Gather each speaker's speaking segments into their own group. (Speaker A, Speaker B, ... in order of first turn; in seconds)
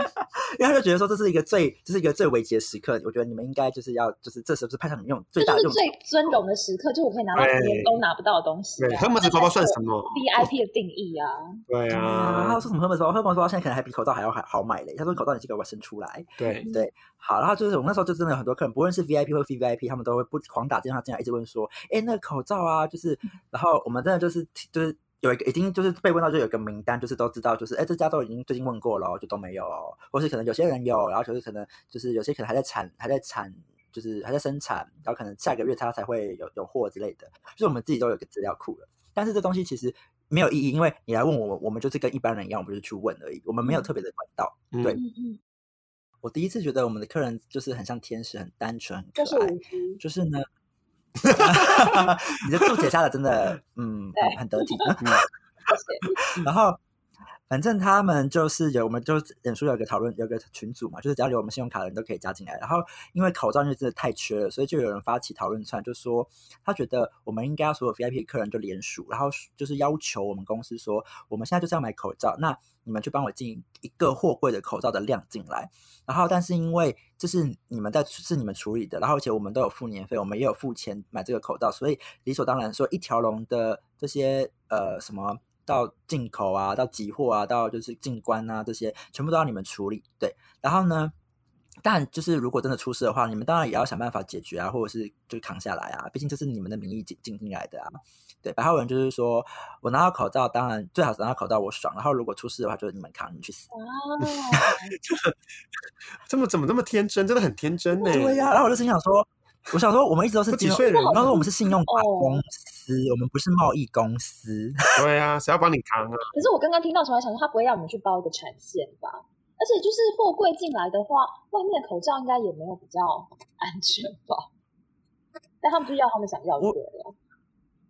Speaker A: 0.2-5.9, 11.9-45.0, 46.2-50.5, 51.2-55.2, 56.3-56.8, 57.5-91.1, 91.8-103.7, 108.0-115.0
Speaker B: 5.4-11.6, 16.6-16.9, 43.6-43.9, 44.9-45.4, 49.2-50.0, 54.2-55.0, 55.7-56.2, 103.7-104.9, 110.8-112.4, 116.3-124.5, 125.6-127.2
Speaker C: 7.3-8.0, 8.8-10.5, 11.7-12.6, 16.4-16.7, 44.7-45.0, 51.3-52.1, 104.5-105.3, 106.3-108.4, 110.5-111.4, 115.0-116.3